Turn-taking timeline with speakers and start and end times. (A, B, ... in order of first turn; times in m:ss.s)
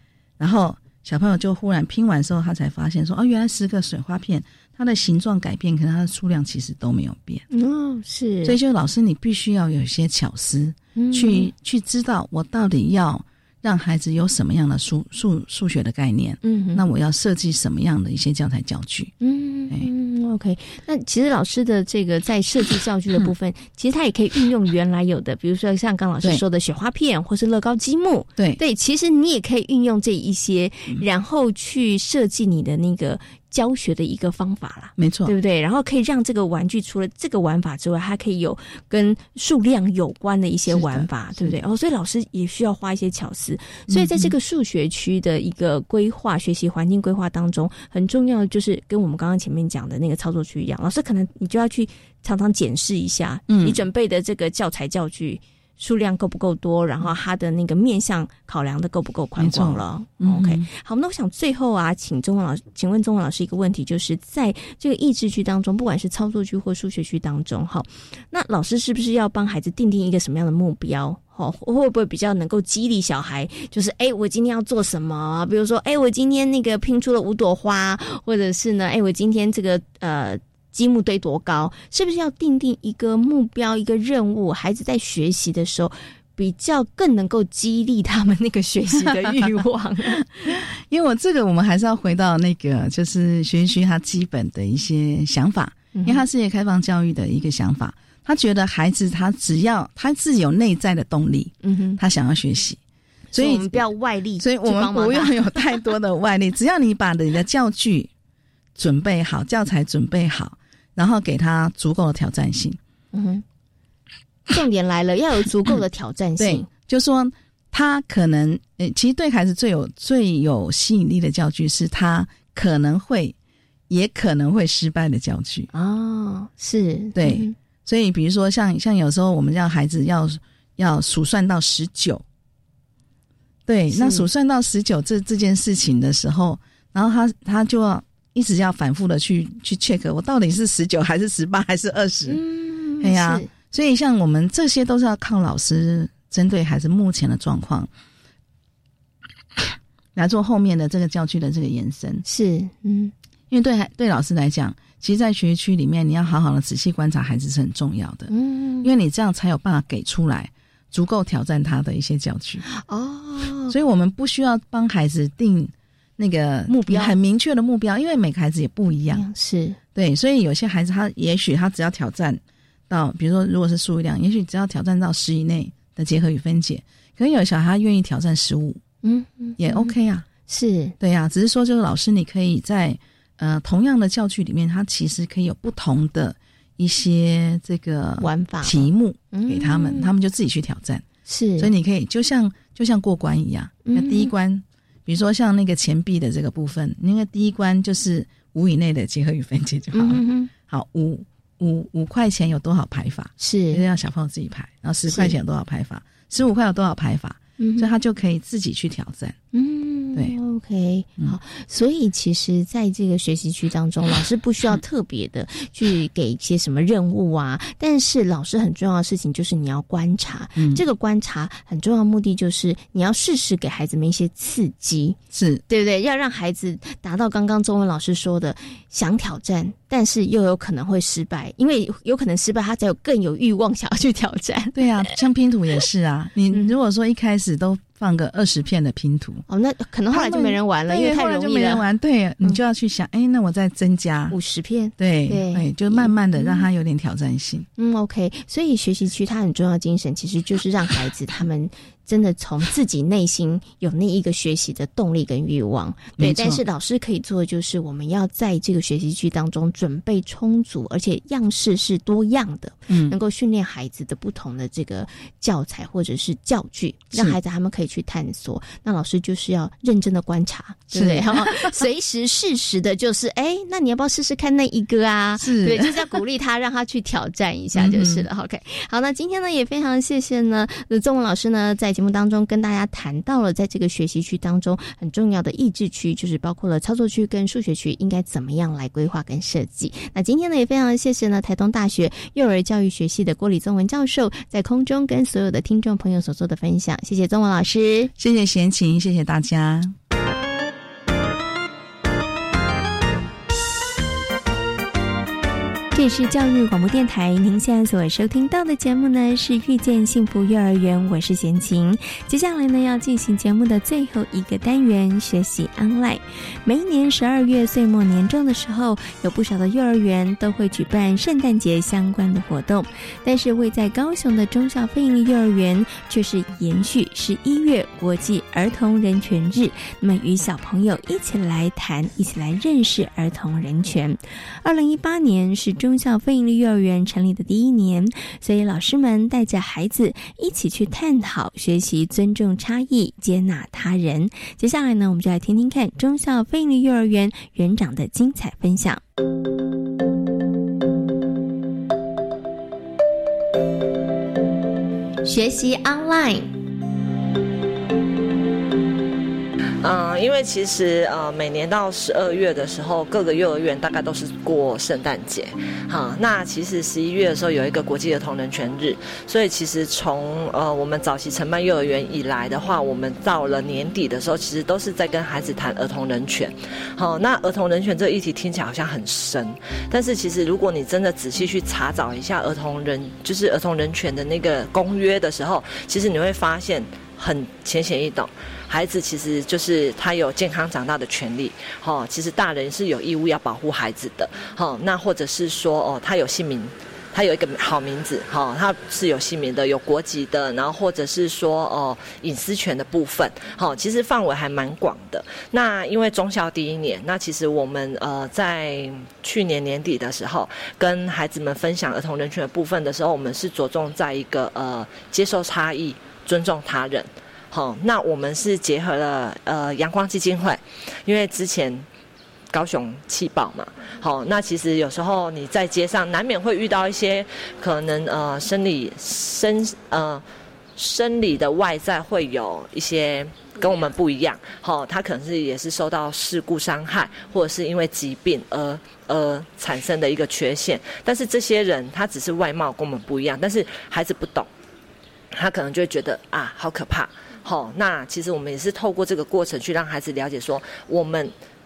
0:00.4-0:07.4 A
0:07.5-0:08.6 B
0:08.4-0:19.1 A
0:11.0-0:11.5 B
0:16.4-0:16.8 B
0:19.2-1:30.5 B
0:35.0-0:35.3 A
0:40.7-0:41.6 A
0:43.9-0:44.3 A
0:53.5-0:53.8 A
0:59.4-1:00.7 A
1:29.1-1:29.4 A
1:30.5-1:42.8 A
1:35.9-1:36.2 B
1:41.6-1:42.0 B
1:43.3-1:45.7 B
1:43.3-1:43.9 A
1:44.4-1:48.1 A
1:48.8-1:52.8 A
1:53.1-1:53.4 B
1:54.5-1:56.7 B
1:56.4-2:03.3 A
2:03.9-2:05.7 A
2:05.7-2:07.5 B
2:07.1-2:12.2 A
2:13.7-2:22.4 A
2:13.9-2:14.3 B
2:22.3-2:23.5 B
2:23.0-2:27.9 A
2:30.1-2:32.2 A
2:32.2-2:33.1 B
2:33.5-2:42.6 A
2:38.3-2:38.9 B
2:42.7-2:43.7 B
2:43.7-2:49.2 A
2:46.7-2:47.1 B
2:49.1-2:49.8 B
2:49.9-2:58.8 A
2:59.0-2:59.9 B
2:59.6-3:00.3 A
3:00.4-3:00.9 B
3:01.0-3:11.0 A
3:08.2-3:10.1 B
3:11.3-3:11.7 B
3:11.6-3:29.4 A
3:13.8-3:14.3 B
3:19.9-3:20.5 B
3:23.4-3:23.8 B
3:25.1-3:25.3 B
3:27.6-3:27.9 B
3:29.5-3:45.2 B
3:40.5-3:40.8 A
3:45.3-3:45.6 A
3:45.7-3:54.8 B
3:54.7-3:59.4 A
3:59.5-4:01.8 B
4:00.1-4:04.4 A
4:04.3-4:06.7 B
4:05.0-4:07.7 A
4:07.8-4:58.1 B
4:16.2-4:16.6 A
4:22.9-4:23.2 A
4:27.1-4:27.4 A
4:30.9-4:31.8 A
4:35.4-4:36.2 A
4:37.7-4:38.3 A
4:58.2-4:59.9 A
5:05.9-5:49.0 B
5:55.2-5:56.5 B
5:59.8-7:01.8 C
7:02.5-7:10.2 C
7:10.8-7:24.5 C
7:25.3-7:31.3 C